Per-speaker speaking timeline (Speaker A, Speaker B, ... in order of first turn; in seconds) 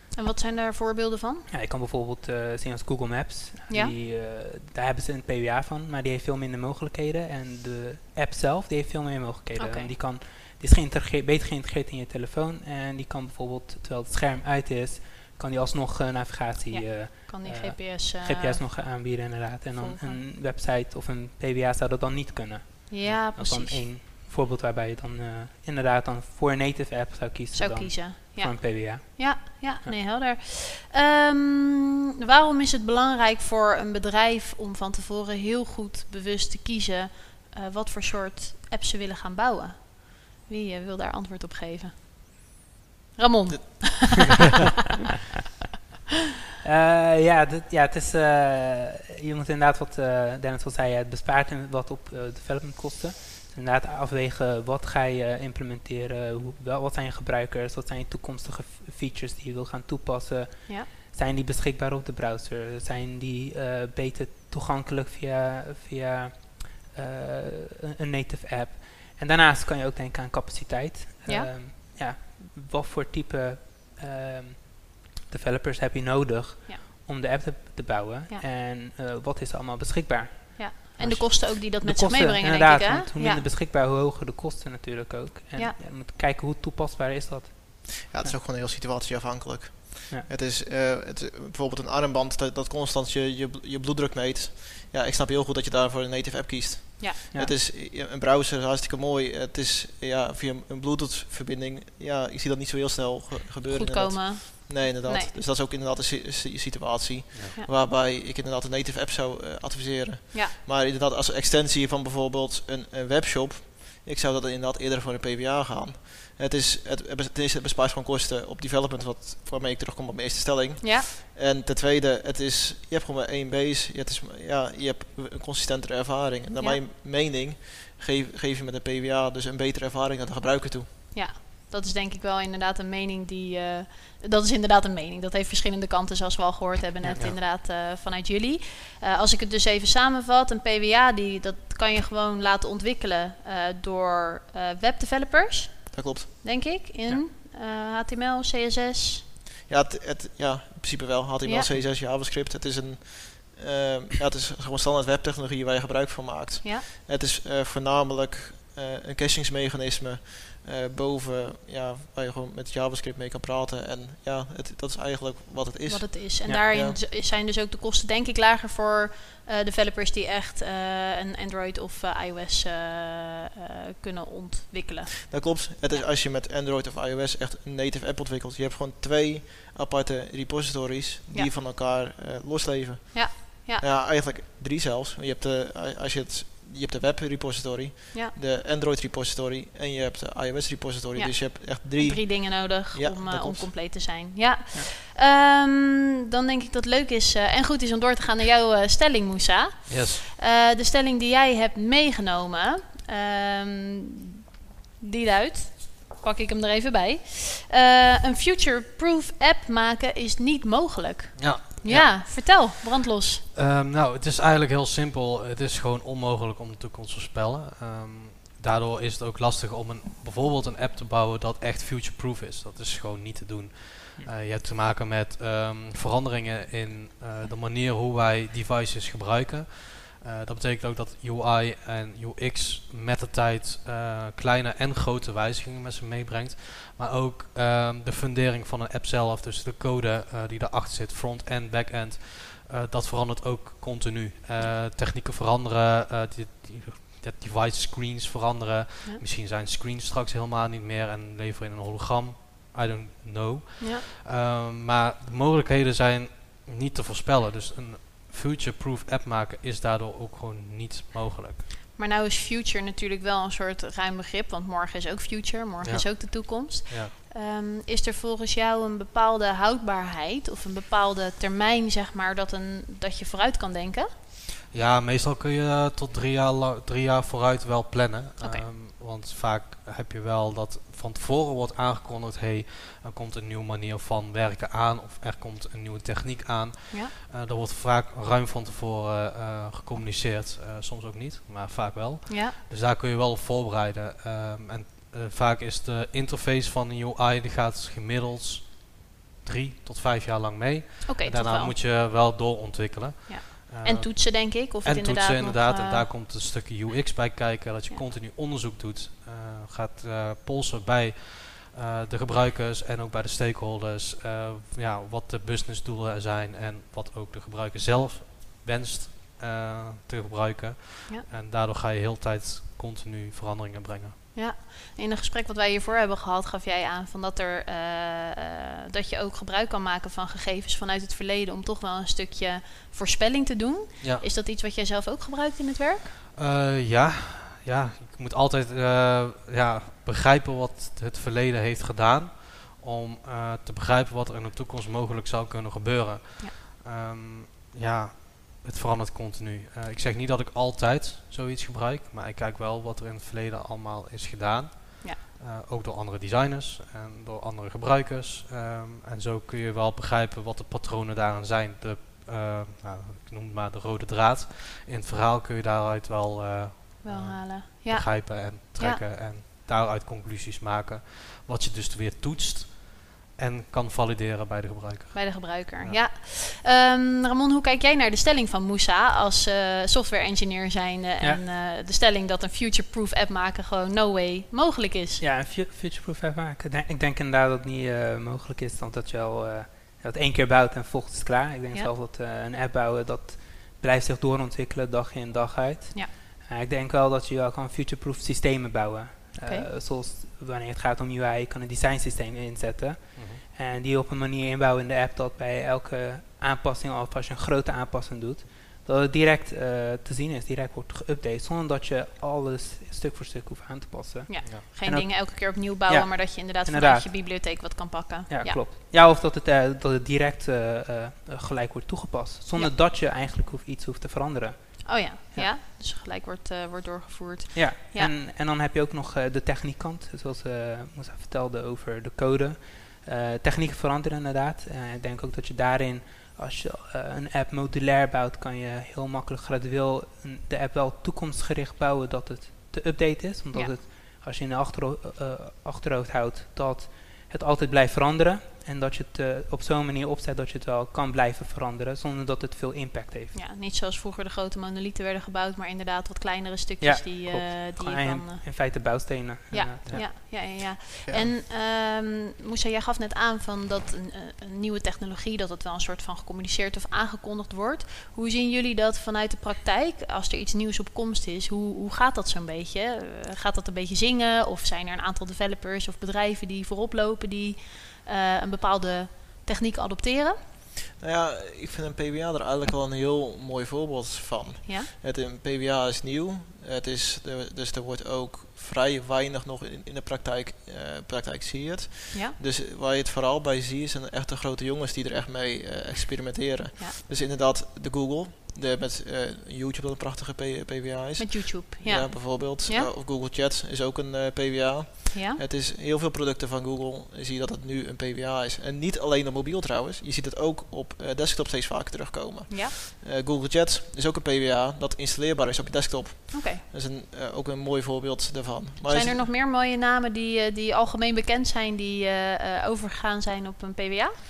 Speaker A: 0.1-1.5, 3.7-3.9, 9.6-9.9, 16.7-19.1, 19.7-20.2, 22.9-23.9, 27.5-41.9, 43.2-44.7, 71.2-71.5, 80.6-83.4, 103.7-105.3, 120.8-121.0, 131.1-149.2, 151.4-151.7, 165.9-176.0, 183.1-183.8, 191.1-204.4, 205.0-213.4, 262.0-274.1, 278.4-278.6, 292.3-292.5, 301.1-301.7, 303.3-306.0, 324.3-336.1, 367.0-369.0, 375.1-385.2, 414.3-418.6, 424.9-428.1, 453.3-458.9, 459.5-480.4, 501.2-502.9, 505.1-505.4, 512.5-512.7, 516.3-516.6, 518.9-524.1
Speaker B: 1.5-30.0, 46.6-88.3, 385.2-417.1, 418.3-425.5, 427.5-453.3, 456.8-460.1
Speaker C: 43.5-44.2, 88.1-130.9, 145.9-146.7, 149.7-167.0, 175.3-193.7, 461.0-461.3, 481.0-519.2
Speaker D: 199.9-200.2, 211.4-212.8, 213.5-261.6, 265.8-267.1, 274.7-324.1, 336.3-376.0, 403.1-403.4